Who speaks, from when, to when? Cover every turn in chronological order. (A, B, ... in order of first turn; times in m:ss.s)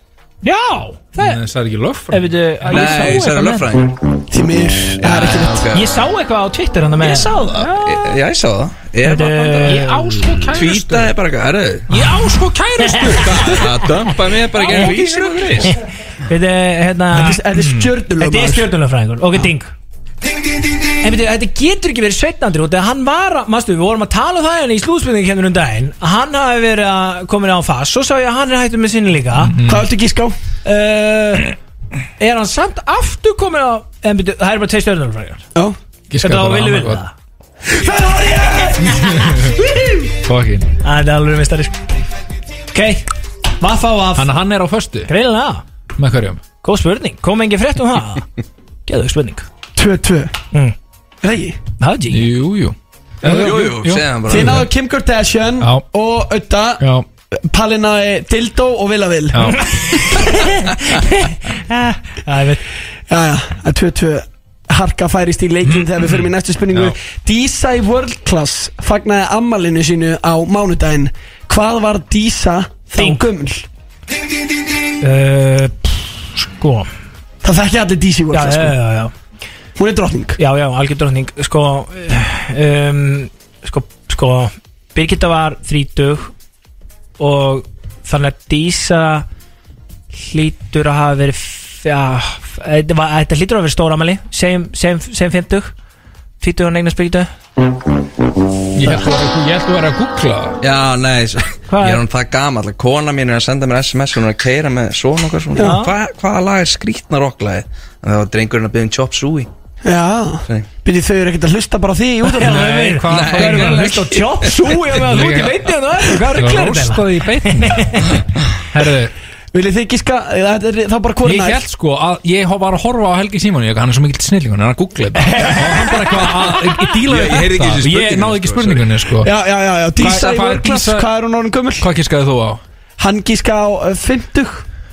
0:00.4-0:01.4 A
0:01.2-0:03.0 B
0:02.1-0:03.7 A
0:02.7-0:04.0 C
0:04.3-0:05.7 D
0:05.0-0:06.0 C
0:05.7-0:08.1 A
0:07.1-0:09.9 C
0:09.0-0:10.4 A
0:09.6-0:11.1 B
0:10.5-0:11.8 C
0:11.9-0:13.7 B
0:11.9-0:13.6 A
0:13.2-0:15.7 C
0:14.5-0:15.7 B
0:14.7-0:15.0 A
0:16.3-0:17.4 A
0:17.1-0:18.7 D
0:17.6-0:17.9 B
0:18.2-0:19.7 A
0:21.0-0:29.6 A
0:29.3-0:29.8 B
0:29.6-0:30.3 D
0:30.6-0:31.5 A
0:32.2-0:35.4 A
0:36.1-0:37.0 B
0:36.2-0:37.1 A
0:37.7-0:39.2 D
0:38.8-0:40.0 A
0:40.2-0:40.7 B
0:40.8-0:41.8 A
0:42.7-0:43.1 A
0:43.6-0:44.3 A
0:44.2-0:45.1 B
0:45.1-0:45.6 A
0:46.0-0:46.4 B
0:46.6-0:48.3 A
0:48.9-0:49.4 A
0:49.8-0:50.3 D
0:51.2-0:51.6 D
0:51.8-0:52.3 A
0:52.1-0:54.6 B
0:53.2-0:54.6 C
0:53.2-0:53.5 A
0:54.3-0:56.8 D
0:56.8-0:57.0 B
0:57.4-0:59.6 D
0:59.3-0:59.7 B
0:59.7-1:02.6 A
1:03.1-1:13.7 D
1:05.6-1:06.9 B
1:12.9-1:13.2 A
1:15.0-1:16.9 A
1:17.4-1:18.8 D
1:18.3-1:19.1 A
1:19.8-1:20.4 D
1:20.4-1:26.3 A
1:27.2-1:29.2 A
1:30.1-1:35.7 A
1:36.4-1:37.3 A
1:38.8-1:40.6 B
1:40.6-1:49.5 C
1:41.7-1:42.0 A
1:45.6-1:45.9 A
1:49.8-1:52.7 D
1:52.2-1:58.2 A
1:52.4-1:54.1 B
1:53.1-1:54.7 C
1:54.8-1:58.0 B
1:58.7-1:59.1 B
1:59.5-2:01.6 D
2:01.2-2:09.3 B
2:05.3-2:06.3 A
2:07.0-2:09.0 C
2:09.2-2:11.9 D
2:10.0-2:11.0 B
2:11.8-2:12.6 B
2:13.0-2:14.6 D